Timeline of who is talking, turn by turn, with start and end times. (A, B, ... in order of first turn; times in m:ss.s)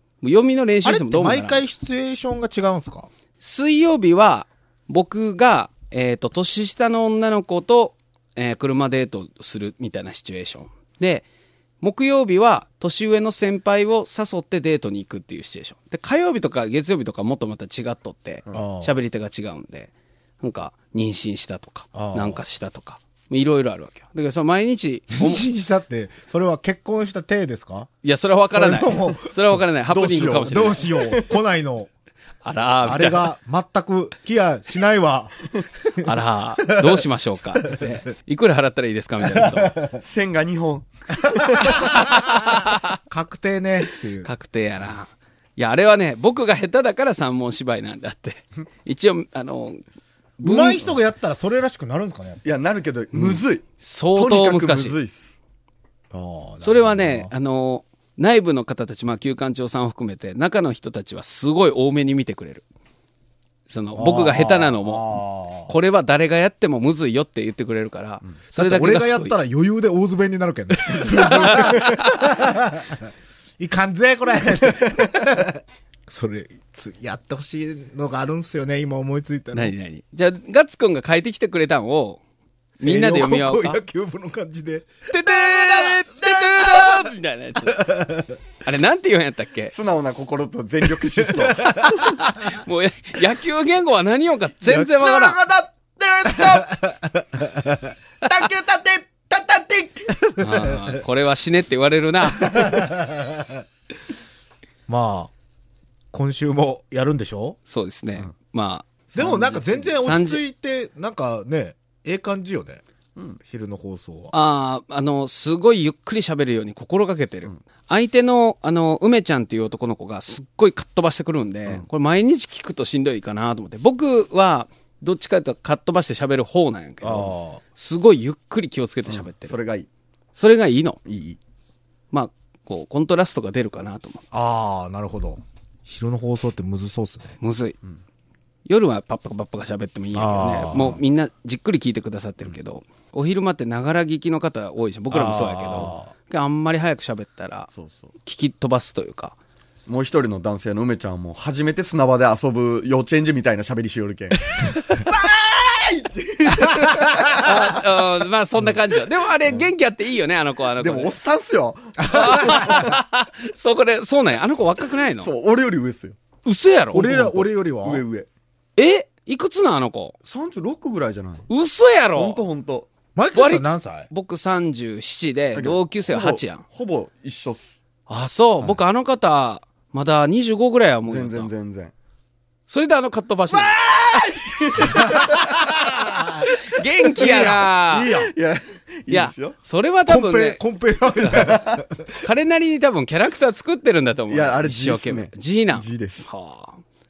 0:00.2-0:01.6 A
0:00.8-0:03.1 B
0:03.4-0:11.2 A
0:11.8-0:25.4 A
0:18.5-0:19.0 B
0:21.9-0:22.4 B
0:25.2-0:27.9 B
0:28.0-0:30.9 A
0:28.5-0:29.3 B
0:29.9-0:31.3 C
0:30.5-0:31.9 B
0:32.4-0:33.3 A
0:32.8-0:35.4 B
0:36.0-0:39.8 A
0:39.2-0:40.0 B
0:40.0-0:42.1 C
0:41.6-0:44.3 B
0:41.8-0:43.0 A
0:44.2-0:49.8 A
0:50.4-0:50.8 A
0:50.4-0:52.4 B
0:52.4-0:53.6 C
0:53.2-0:55.0 A
0:54.2-0:55.3 C
0:56.1-0:57.3 B
0:56.6-1:02.6 A
1:03.7-1:09.4 A
1:04.0-1:05.7 B
1:08.6-1:13.1 B
1:11.1-1:12.1 C
1:11.1-1:12.0 A
1:13.6-1:19.7 B
1:19.5-1:22.2 A
1:22.8-1:23.8 A
1:22.8-1:27.1 B
1:25.1-1:27.8 A
1:27.6-1:28.4 B
1:28.6-1:29.7 A
1:29.7-1:31.9 C
1:31.2-1:32.2 B
1:31.5-1:35.4 A
1:34.7-1:36.8 C
1:36.3-1:37.9 B
1:38.2-1:40.1 C
1:40.2-1:41.0 B
1:40.4-1:42.9 A
1:42.4-1:43.6 B
1:44.9-1:45.3 B
1:46.1-1:47.6 B
1:47.7-1:48.9 A
1:49.1-1:49.9 C
1:49.2-1:52.8 B
1:50.0-1:50.4 A
1:53.4-1:54.3 B
1:54.3-2:09.6 A
2:07.0-2:07.6 B
2:09.1-2:09.9 C
2:10.4-2:11.0 A
2:11.1-2:11.4 C
2:12.1-2:14.2 A
2:14.3-2:17.4 B
2:17.4-2:17.8 A
2:18.7-2:27.7 A
2:20.2-2:21.0 B
2:25.1-2:26.1 B
2:25.5-2:26.0 C
2:27.7-2:28.1 C
2:28.2-2:29.4 A
2:29.9-2:38.1 C
2:34.7-2:35.1 A
2:36.7-2:37.5 B
2:37.4-2:41.2 A
2:39.5-2:39.7 C
2:40.8-2:43.0 C
2:42.0-2:42.9 B
2:42.1-2:45.3 A
2:45.2-2:46.2 C
2:46.4-2:47.4 A
2:46.9-2:48.0 B
2:47.8-2:48.3 C
2:48.8-2:50.2 A
2:50.2-2:51.5 C
2:51.5-2:52.4 A
2:52.2-2:52.9 C
2:53.2-2:54.1 B
2:53.3-2:56.6 A
2:55.6-2:57.8 C
2:58.1-3:01.5 A
3:01.1-3:01.9 C
3:02.7-3:03.7 A
3:03.5-3:05.8 C
3:04.9-3:06.5 B
3:06.5-3:08.1 A
3:07.2-3:08.3 B
3:07.2-3:09.6 C
3:09.1-3:10.6 A
3:10.1-3:12.0 B
3:11.2-3:11.5 A
3:11.2-3:11.8 C
3:12.2-3:16.8 A
3:14.3-3:16.3 C